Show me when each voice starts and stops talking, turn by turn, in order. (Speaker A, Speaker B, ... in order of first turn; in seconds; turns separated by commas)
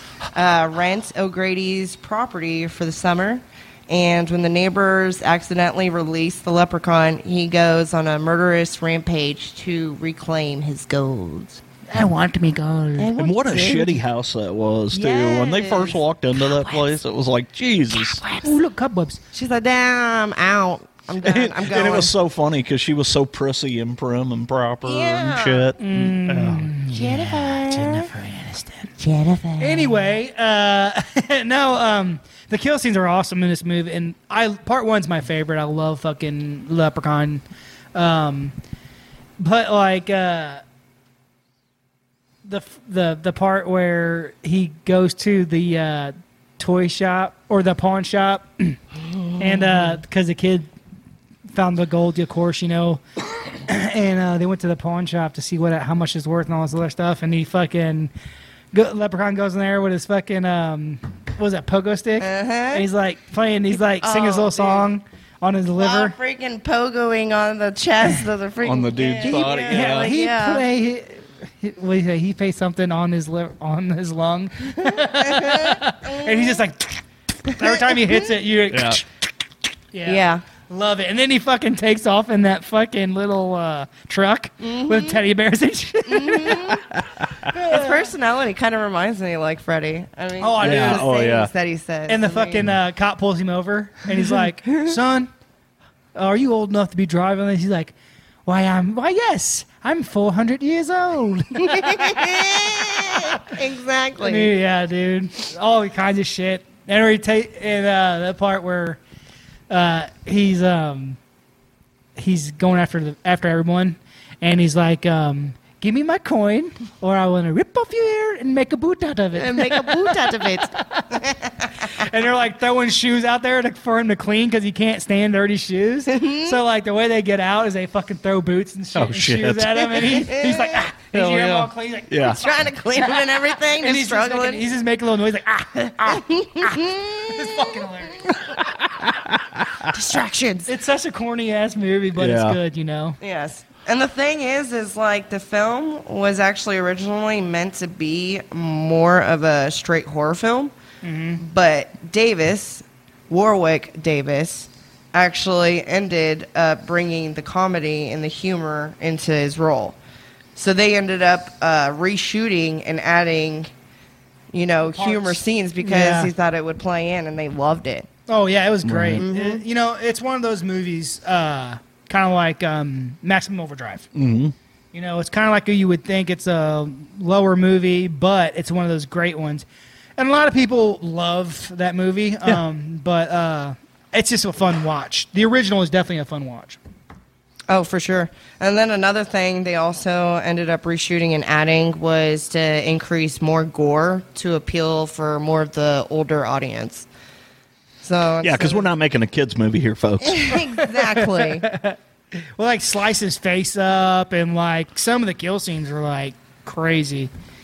Speaker A: 0.3-11.6, Speaker B: 11.9-13.1, Speaker A: 13.0-14.0, Speaker C: 13.2-18.2, Speaker A: 14.9-17.0, Speaker A: 17.9-18.5, Speaker B: 18.4-19.2, Speaker A: 19.3-22.1, Speaker C: 21.2-26.7, Speaker A: 24.8-25.7, Speaker B: 25.8-28.9, Speaker A: 26.9-28.1, Speaker A: 29.0-30.1, Speaker B: 29.6-37.4, Speaker B: 37.9-38.5, Speaker B: 39.4-40.6, Speaker B: 42.4-48.8, Speaker B: 49.4-50.7, Speaker B: 51.5-58.1, Speaker B: 58.7-66.1, Speaker A: 62.2-62.8, Speaker A: 64.0-64.8, Speaker A: 65.8-70.6, Speaker C: 68.6-70.1, Speaker B: 69.2-79.1, Speaker A: 74.8-76.6, Speaker A: 77.6-78.2, Speaker C: 78.7-79.0, Speaker B: 79.9-86.8, Speaker A: 80.0-80.4, Speaker A: 84.6-85.2, Speaker A: 86.1-86.8, Speaker C: 87.0-87.3, Speaker B: 87.5-88.1, Speaker A: 87.5-92.7, Speaker B: 90.4-91.1, Speaker C: 90.6-91.5, Speaker B: 92.1-95.3, Speaker B: 96.1-97.9, Speaker B: 98.5-103.5, Speaker A: 101.6-104.5, Speaker B: 104.2-109.0, Speaker B: 109.7-111.2, Speaker B: 112.2-121.2, Speaker A: 119.3-121.9, Speaker B: 121.8-138.4, Speaker A: 126.1-126.6, Speaker C: 128.9-130.1, Speaker A: 130.1-130.9, Speaker C: 131.1-132.4, Speaker A: 132.2-134.6, Speaker A: 136.1-137.6, Speaker C: 138.5-139.9, Speaker A: 139.9-140.7, Speaker B: 140.7-143.2, Speaker C: 142.2-142.6, Speaker A: 143.2-150.7, Speaker B: 151.0-151.4, Speaker A: 151.4-159.9, Speaker A: 160.6-163.7, Speaker A: 164.5-168.1, Speaker B: 164.9-166.3, Speaker B: 168.3-174.1, Speaker C: 168.8-169.2, Speaker A: 169.2-169.6, Speaker C: 174.1-174.5, Speaker B: 174.9-179.6, Speaker B: 180.2-186.8, Speaker A: 187.7-197.1, Speaker A: 198.0-198.9, Speaker C: 198.4-200.6, Speaker A: 200.2-201.7, Speaker B: 200.7-202.0, Speaker B: 202.6-207.3